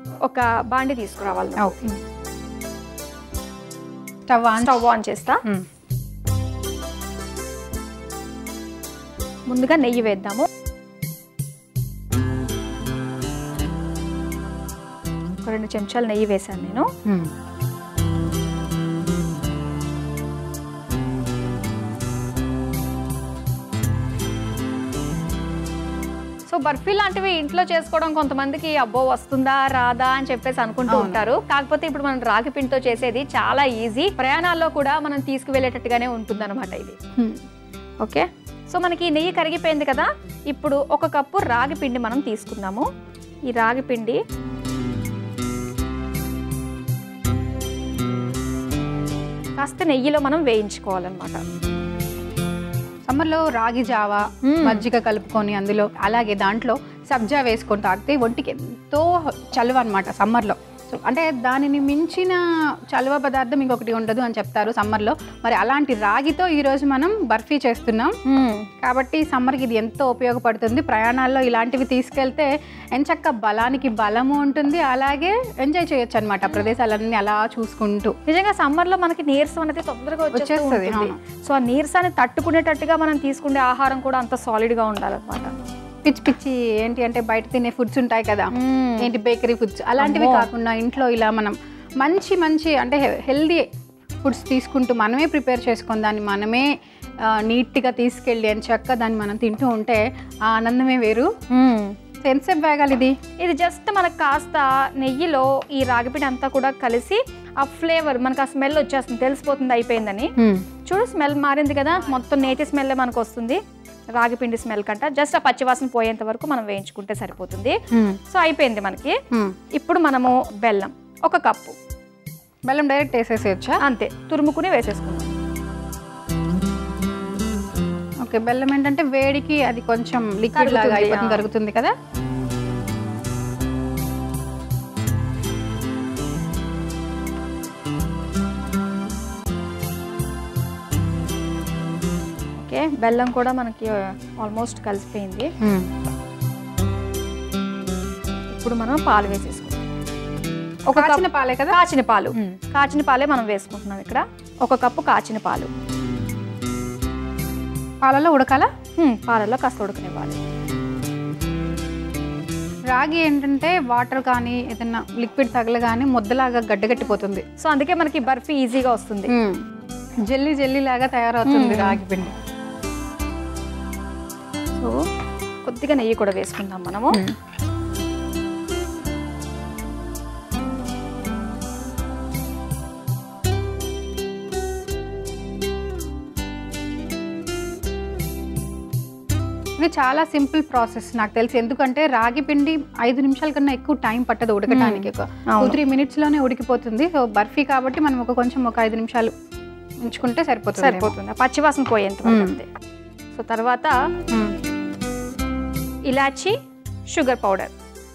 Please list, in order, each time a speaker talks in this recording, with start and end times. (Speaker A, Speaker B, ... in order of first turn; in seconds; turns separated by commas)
Speaker A: 0.2-1.8, Speaker B: 1.6-1.9, Speaker B: 4.3-4.9, Speaker A: 4.6-5.4, Speaker A: 9.5-10.5, Speaker A: 15.4-16.9, Speaker A: 26.5-37.0, Speaker B: 30.9-31.2, Speaker A: 38.0-42.9, Speaker A: 43.5-44.2, Speaker A: 49.6-51.4, Speaker B: 53.1-62.4, Speaker A: 54.4-54.9, Speaker B: 62.9-68.1, Speaker A: 68.2-68.7, Speaker B: 68.8-78.1, Speaker A: 78.3-85.5, Speaker B: 80.3-81.2, Speaker B: 86.0-93.6, Speaker A: 88.5-89.1, Speaker A: 90.0-90.5, Speaker B: 94.2-96.7, Speaker B: 97.3-101.3, Speaker A: 101.5-101.9, Speaker B: 102.2-103.1, Speaker A: 103.4-110.3, Speaker A: 110.9-113.6, Speaker A: 114.2-117.8, Speaker B: 117.9-118.2, Speaker A: 118.3-119.1, Speaker A: 119.8-121.8, Speaker B: 122.7-123.8, Speaker A: 123.8-125.4, Speaker B: 128.2-131.9, Speaker A: 130.5-131.5, Speaker A: 142.6-145.5, Speaker B: 145.6-145.9, Speaker A: 148.5-149.8, Speaker A: 150.9-155.7, Speaker B: 150.9-151.8, Speaker B: 158.0-158.7, Speaker A: 159.0-160.4, Speaker B: 162.9-167.4, Speaker A: 167.6-169.3, Speaker B: 169.3-169.6, Speaker B: 170.3-172.3, Speaker A: 171.4-172.0, Speaker A: 175.6-177.2, Speaker B: 189.8-199.3, Speaker A: 194.7-195.8, Speaker B: 200.0-201.2, Speaker A: 200.8-202.7, Speaker B: 202.2-202.6, Speaker A: 203.3-203.9, Speaker A: 206.1-206.6, Speaker A: 207.1-207.7